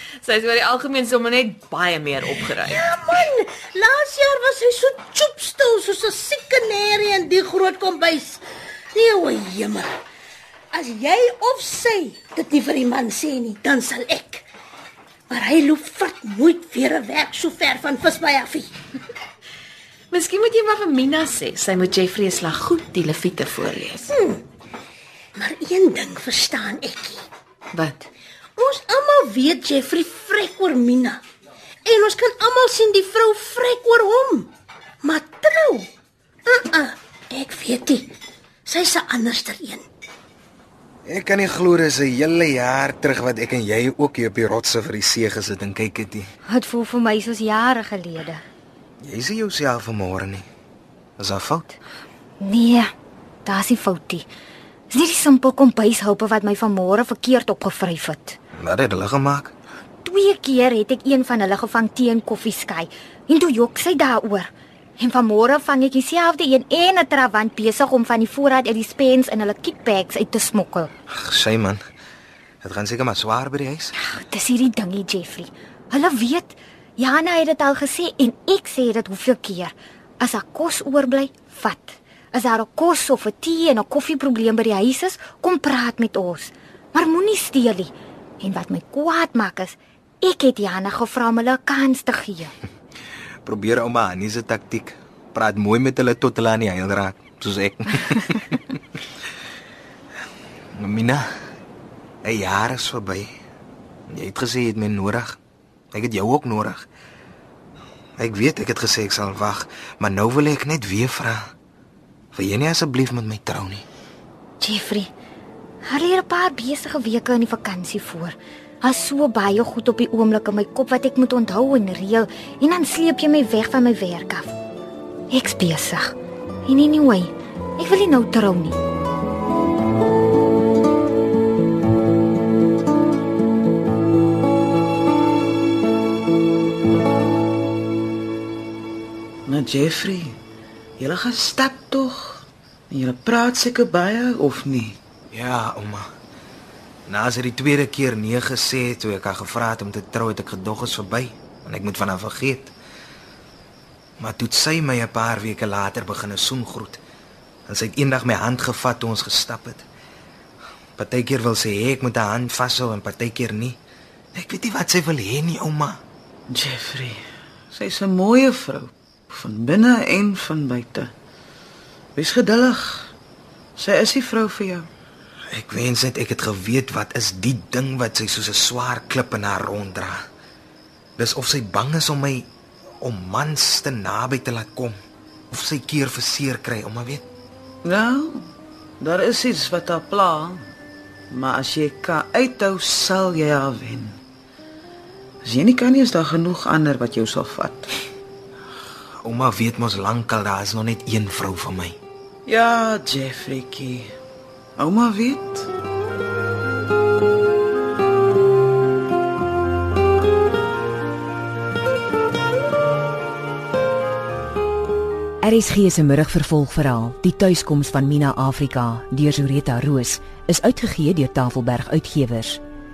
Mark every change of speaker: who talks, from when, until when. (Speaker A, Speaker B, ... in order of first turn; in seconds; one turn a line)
Speaker A: 0.2-3.0
Speaker B: 2.7-8.4
Speaker B: 8.9-9.9
Speaker B: 10.7-14.4
Speaker B: 15.3-18.7
Speaker A: 20.1-24.1
Speaker B: 24.1-24.4
Speaker B: 25.4-27.2
Speaker A: 27.7-28.1
Speaker B: 28.6-31.2
Speaker B: 31.8-34.5
Speaker B: 35.0-35.9
Speaker B: 36.5-38.1
Speaker B: 38.7-39.8
Speaker C: 41.0-46.3
Speaker D: 46.5-48.4
Speaker C: 49.0-50.5
Speaker C: 51.2-51.8
Speaker D: 52.4-52.9
Speaker D: 53.4-54.3
Speaker D: 54.9-58.4
Speaker C: 58.5-59.5
Speaker D: 60.0-70.9
Speaker C: 71.1-71.8
Speaker C: 72.6-73.9
Speaker D: 74.0-92.5
Speaker C: 93.5-98.8
Speaker C: 100.8-101.2
Speaker C: 102.2-103.3
Speaker C: 104.1-105.4
Speaker C: 105.9-106.8
Speaker C: 108.2-111.4
Speaker C: 112.3-113.8
Speaker D: 114.6-115.1
Speaker D: 115.8-124.6
Speaker D: 125.3-126.1
Speaker D: 126.7-128.8
Speaker E: 139.5-140.3
Speaker E: 141.0-145.0
Speaker C: 145.3-146.1
Speaker C: 147.1-152.7
Speaker C: 154.2-157.0
Speaker C: 157.7-159.8
Speaker C: 161.0-163.8
Speaker C: 164.3-166.0
Speaker E: 166.5-171.1
Speaker E: 172.2-173.1
Speaker E: 173.8-174.9
Speaker C: 175.5-180.2
Speaker C: 181.2-182.5
Speaker C: 183.0-184.9
Speaker C: 185.5-187.2
Speaker E: 187.8-188.5
Speaker E: 189.0-190.7
Speaker E: 191.3-194.2
Speaker E: 195.4-197.9
Speaker C: 199.2-201.9
Speaker E: 202.5-204.1
Speaker E: 204.8-205.7
Speaker F: 215.4-222.6